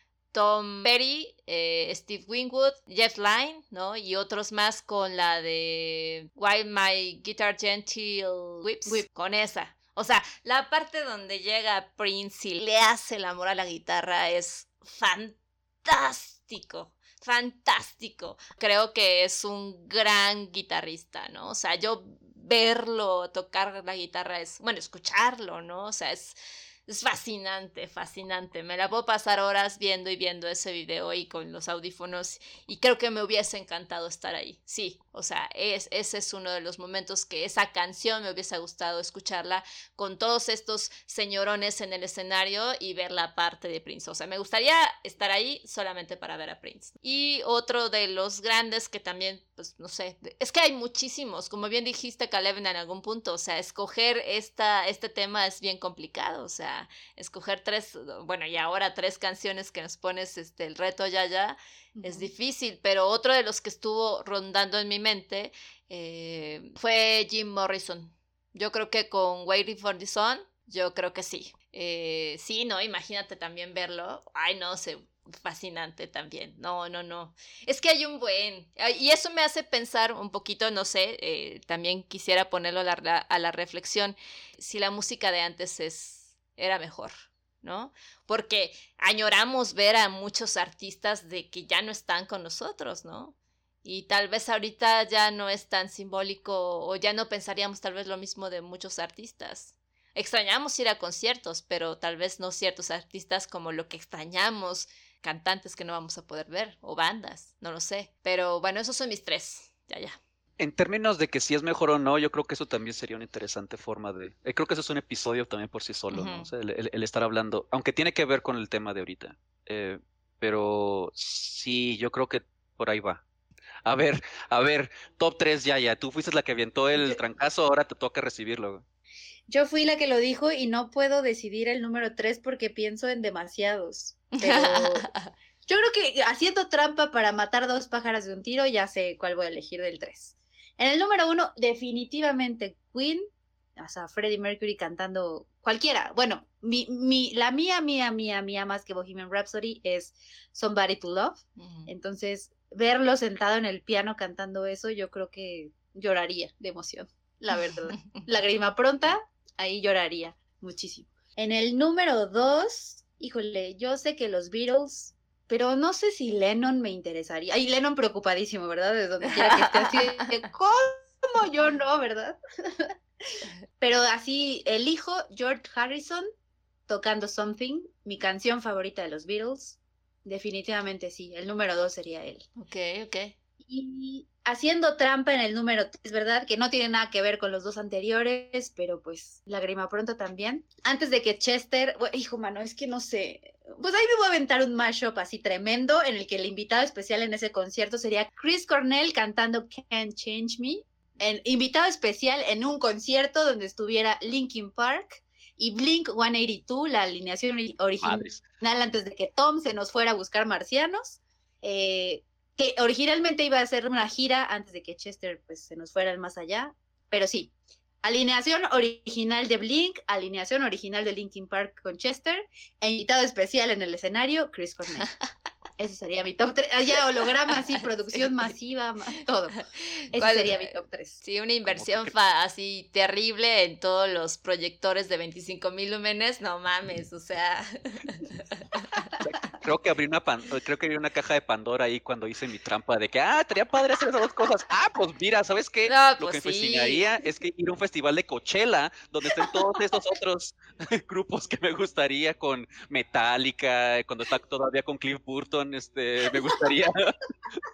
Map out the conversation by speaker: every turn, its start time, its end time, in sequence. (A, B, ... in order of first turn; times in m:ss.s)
0:00.3-1:50.2 A
1:02.0-1:02.3 B
1:50.6-2:03.2 C
1:56.1-1:56.5 A
2:03.8-2:08.8 C
2:09.5-2:15.1 B
2:14.3-2:15.3 A
2:15.7-2:23.2 B
2:23.8-2:52.9 B
2:31.6-2:31.9 A
2:38.0-2:38.2 A
2:49.3-2:50.3 A
2:53.8-2:56.3 B
2:56.9-3:02.4 B
3:02.6-3:03.3 A
3:03.6-3:45.1 B
3:28.0-3:28.4 C
3:45.8-3:51.2 B
3:49.7-3:59.1 A
3:51.6-3:52.1 C
3:59.2-4:17.2 C
4:05.8-4:07.1 A